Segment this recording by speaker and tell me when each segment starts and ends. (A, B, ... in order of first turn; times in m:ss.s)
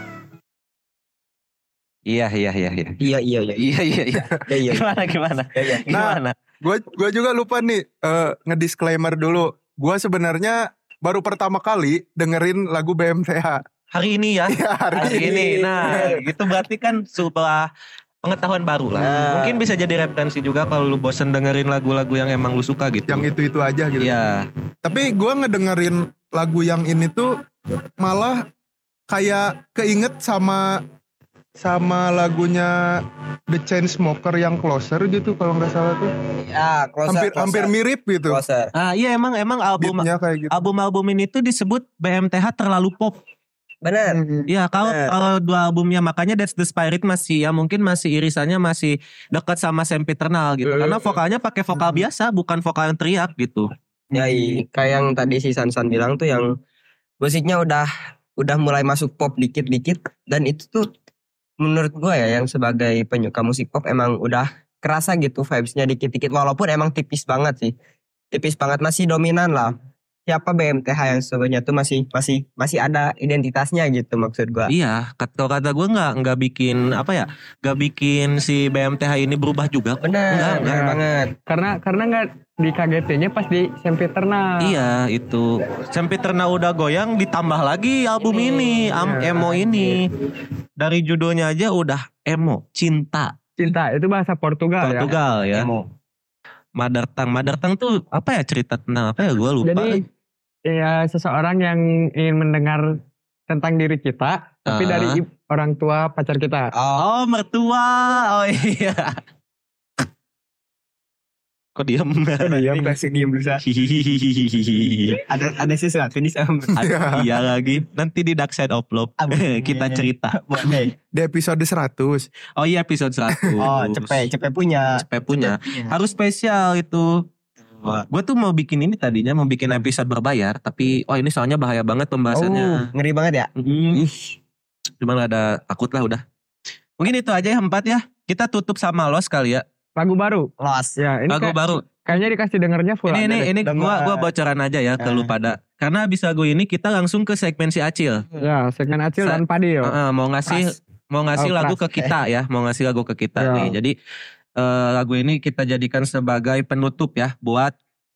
0:02.1-0:03.0 A
0:03.0-0:03.6 B
0:03.6-0:06.3 A
0:04.4-0:04.9 B
0:05.5-0:06.0 B
0:05.9-0:13.6 C
0:13.9-0:17.7 A
0:14.5-0:15.4 C
0:14.9-0:16.2 B
0:18.2-0:23.2 A
0:19.0-0:19.6 B
0:23.1-0:24.1 C
0:24.0-0:24.5 A
0:24.8-0:27.3 C
0:28.0-0:28.4 C
0:29.1-0:30.8 C
0:31.6-0:36.1 C
0:36.4-0:37.7 B
0:37.1-0:38.4 C
0:38.3-0:38.7 B
0:38.7-0:43.2 A
0:39.8-0:40.5 C
0:43.8-0:44.3 B
0:44.1-0:44.4 C
0:44.5-0:54.2 A
0:44.8-0:45.1 B
0:50.6-0:51.0 B
0:54.1-0:56.5 B
0:57.2-1:00.9 B
1:01.6-1:07.7 B
1:08.3-1:09.8 B
1:10.3-1:14.7 B
1:14.7-1:20.8 A
1:20.0-1:21.3 B
1:20.6-1:24.7 D
1:24.6-1:30.0 A
1:29.0-1:29.4 D
1:29.3-1:29.7 B
1:30.8-1:33.3 A
1:33.6-1:35.1 D
1:34.8-1:35.7 A
1:35.5-1:35.9 B
1:36.8-1:40.0 A
1:39.6-1:40.0 D
1:40.7-1:43.0 D
1:43.5-1:46.7 D
1:44.7-1:45.2 A
1:46.7-1:47.0 B
1:47.0-1:49.2 A
1:51.7-1:52.7 A
1:52.4-1:53.6 B
1:52.5-1:52.9 D
1:53.6-1:55.2 A
1:55.2-1:56.7 B
1:56.7-1:57.4 C
1:56.8-2:00.7 A
1:59.2-2:00.9 B
2:01.1-2:02.3 C
2:02.6-2:04.3 A
2:03.3-2:03.6 C
2:03.6-2:05.9 B
2:05.0-2:07.2 A
2:07.8-2:12.9 A
2:12.3-2:12.8 D
2:12.4-2:14.2 B
2:13.6-2:14.0 A
2:15.0-2:16.2 A
2:17.0-2:19.6 A
2:20.0-2:23.5 D
2:20.6-2:21.0 B
2:21.3-2:21.9 A
2:23.1-2:28.2 A
2:23.6-2:24.3 B
2:25.0-2:25.3 B
2:28.4-2:29.9 D
2:29.2-2:33.9 A
2:31.4-2:31.8 D
2:33.4-2:33.7 D
2:34.6-2:37.7 A